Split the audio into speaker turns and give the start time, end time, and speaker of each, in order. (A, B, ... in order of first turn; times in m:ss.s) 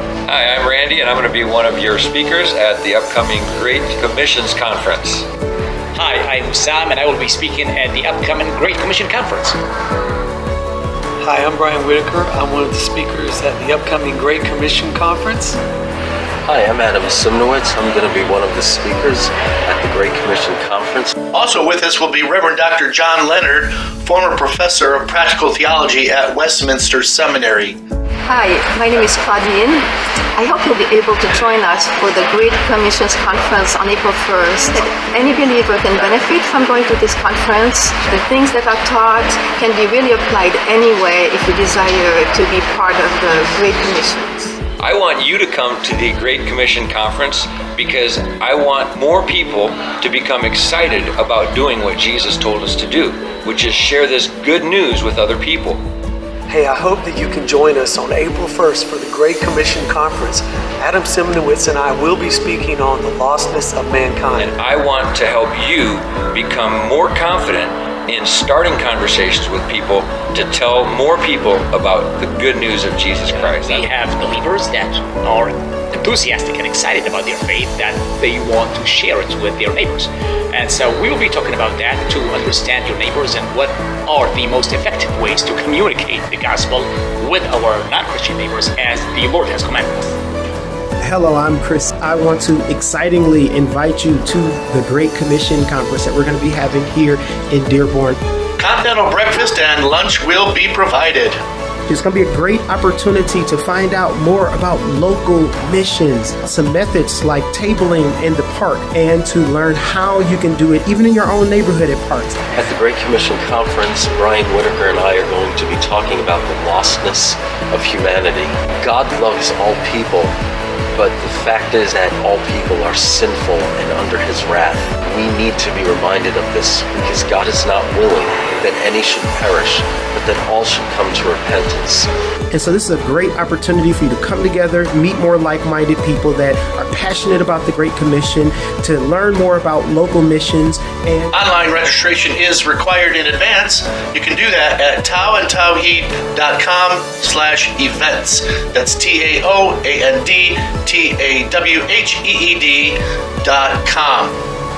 0:00.3-0:05.3 A
0:06.0-0:09.6 B
0:11.2-0:15.6 C
0:16.4-0:21.1 D
0:21.3-0:27.8 E
0:28.2-0:44.6 F
0:44.8-0:55.8 A
0:56.5-1:04.5 C
1:04.4-1:13.9 A
1:13.4-1:30.0 B
1:31.0-1:38.2 G
1:38.6-1:41.4 E
1:41.9-1:52.4 G
1:52.6-2:00.4 D
2:01.0-2:12.1 D
2:12.5-2:21.4 G
2:21.3-2:34.4 E